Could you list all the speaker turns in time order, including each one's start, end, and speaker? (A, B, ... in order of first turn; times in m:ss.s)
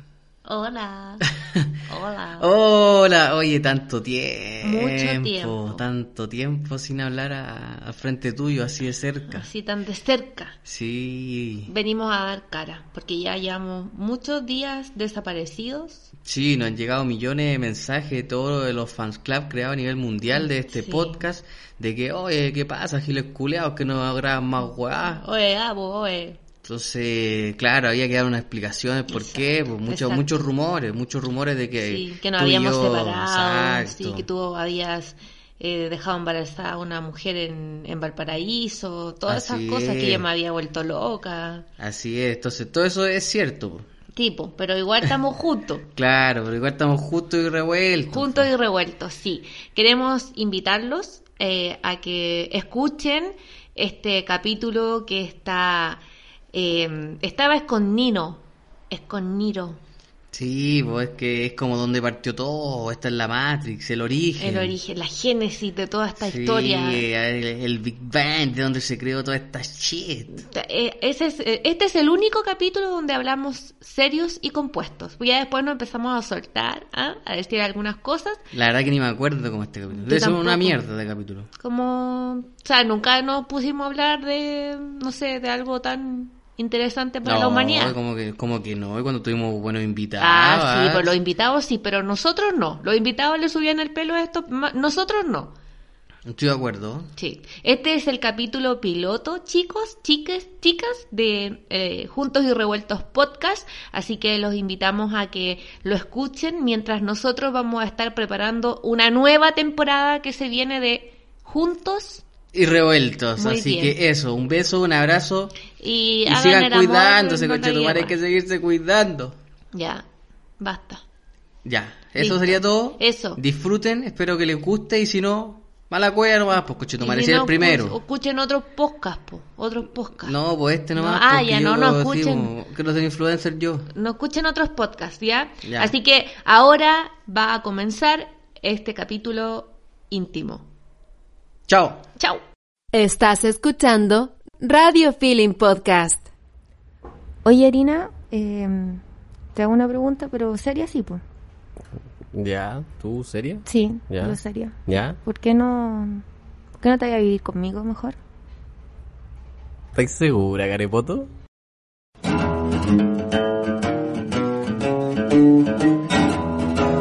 0:00.4-0:01.2 A
0:01.4-0:01.7 B
0:01.9-0:02.5 A
0:02.4-0:09.5 B
0:04.6-0:05.8 A
0:09.3-0:10.6 A
0:10.6-0:11.7 B
0:11.7-0:16.1 A
0:16.2-0:25.2 B
0:20.3-0:21.2 A
0:25.1-0:26.4 A
0:26.6-0:34.3 B
0:29.1-0:30.4 A
0:31.8-0:41.7 A
0:39.3-0:40.3 B
0:41.8-0:43.9 B
0:44.2-0:45.9 A
0:46.0-0:48.5 B
0:48.1-0:59.8 A
1:00.3-1:04.8 B
1:04.4-1:07.1 A
1:06.2-1:10.4 B
1:10.5-1:18.4 A
1:18.5-1:21.5 B
1:19.9-1:20.8 A
1:21.6-1:28.0 A
1:27.2-1:31.2 B
1:30.2-1:35.5 A
1:36.2-1:37.1 B
1:37.2-1:52.2 A
1:52.5-1:55.6 B
1:53.4-1:54.0 A
1:55.8-1:58.2 A
1:56.2-1:59.4 B
1:59.7-2:00.0 A
2:00.6-2:01.0 A
2:01.6-2:08.0 B
2:02.2-2:03.4 A
2:07.0-2:10.4 A
2:10.2-2:13.9 B
2:11.0-2:12.5 A
2:13.9-2:20.7 A
2:15.6-2:15.9 B
2:21.7-2:22.0 B
2:22.9-2:26.3 C
2:27.4-2:29.0 D
2:29.6-2:31.2 D
2:32.3-2:35.2 E
2:33.7-2:36.2 D
2:36.8-2:38.2 D
2:40.0-2:41.3 E